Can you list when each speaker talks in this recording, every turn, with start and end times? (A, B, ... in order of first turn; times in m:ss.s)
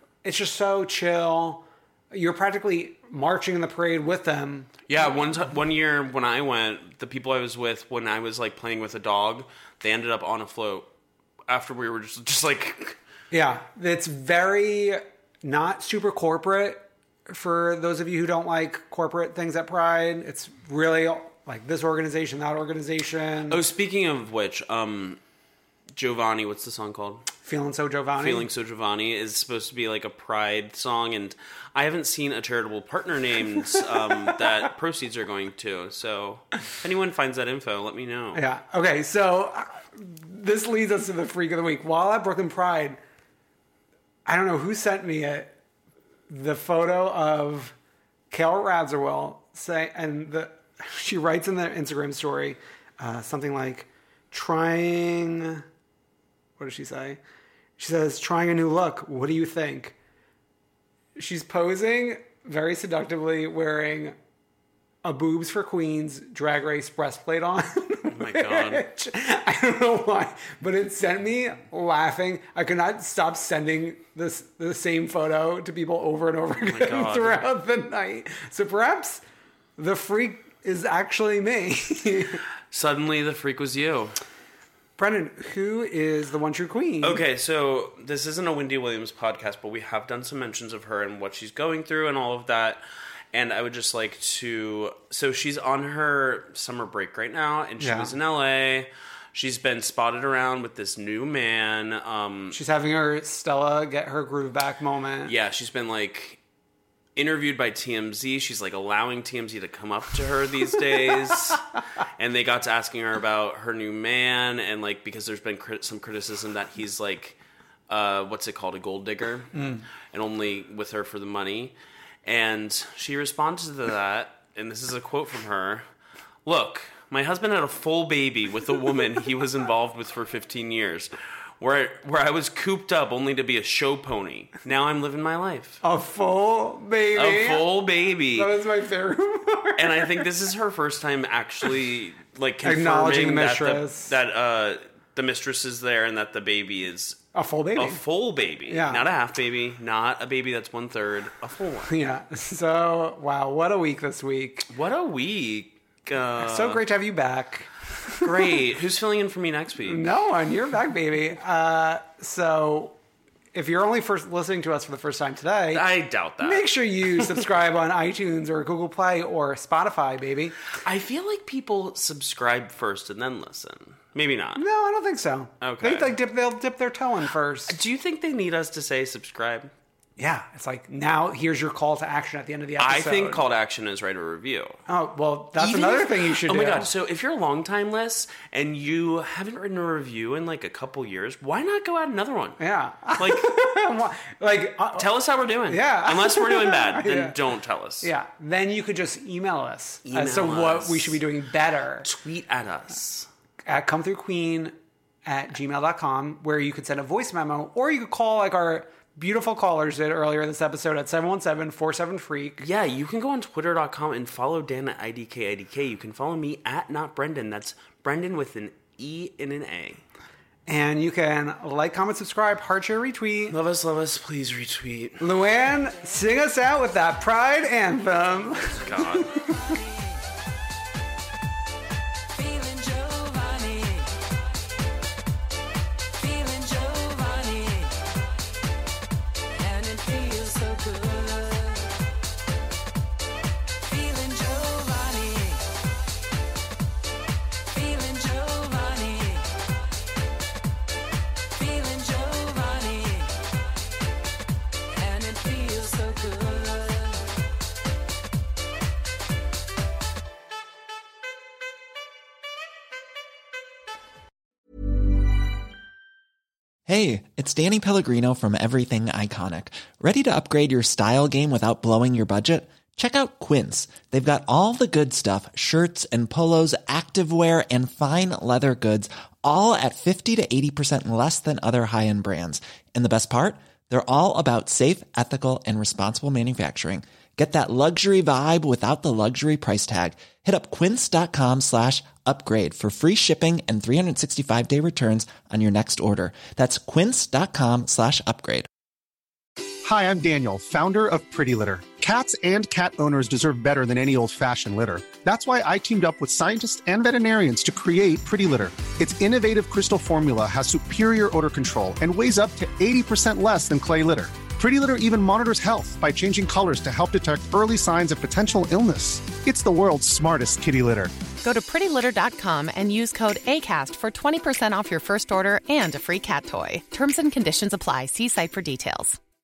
0:00.2-0:04.8 A
0:04.9-0:10.9 B
0:11.5-0:13.0 B
0:13.3-0:23.6 A
0:23.5-0:25.2 B
0:26.0-0:27.3 B
0:27.4-0:28.5 A
0:28.2-0:38.4 B
0:38.3-0:43.0 A
0:44.2-0:45.5 A
0:46.3-0:47.7 A
0:48.3-0:55.6 A
0:56.6-0:57.2 A
0:57.8-0:59.9 A
1:01.2-1:04.2 A
1:05.0-1:19.2 A
1:08.1-1:08.8 B
1:16.6-1:17.4 B
1:19.8-1:22.4 A
1:22.7-1:24.2 B
1:25.0-1:27.2 A
1:27.0-1:42.6 B
1:37.8-1:38.1 A
1:42.5-1:45.3 A
1:45.2-1:46.4 B
1:47.2-1:51.6 B
1:52.2-1:57.4 B
1:57.9-2:05.8 B
1:59.5-1:59.8 A
2:06.4-2:15.8 B
2:15.8-2:17.6 A
2:17.1-2:18.5 B
2:18.3-2:20.2 A
2:19.8-2:27.2 B
2:22.6-2:24.1 A
2:27.3-2:28.0 A
2:27.8-2:31.9 B
2:28.7-2:29.0 A
2:31.8-2:34.7 A
2:34.7-2:36.8 B
2:36.4-2:38.3 A
2:38.2-2:40.1 B
2:39.8-2:42.9 A
2:43.5-2:45.8 A
2:45.7-2:46.7 B
2:46.4-2:50.6 A
2:50.8-2:54.6 B
2:54.6-2:57.7 A
2:55.6-2:56.1 B
2:57.7-2:59.7 B
3:00.2-3:03.4 A
3:02.8-3:04.8 B
3:04.9-3:06.9 A
3:05.6-3:12.6 B
3:12.6-3:15.0 A
3:13.2-3:13.5 B
3:15.0-3:18.1 B
3:15.7-3:17.4 A
3:18.0-3:22.1 A
3:20.0-3:21.2 B
3:22.0-3:23.3 B
3:23.6-3:24.7 A
3:25.2-3:32.6 A
3:32.6-3:40.0 B
3:40.7-3:43.5 A
3:43.5-3:45.2 B
3:45.2-3:49.3 A
3:48.7-3:49.3 B
3:52.3-3:54.1 C
3:56.2-3:58.0 C
3:59.5-4:01.9 C
4:03.8-4:05.6 C
4:07.7-4:09.5 C
4:11.6-4:13.4 C
4:14.9-4:17.2 C
4:26.9-4:58.7 D
4:59.8-5:21.1 E
5:21.4-5:29.2 F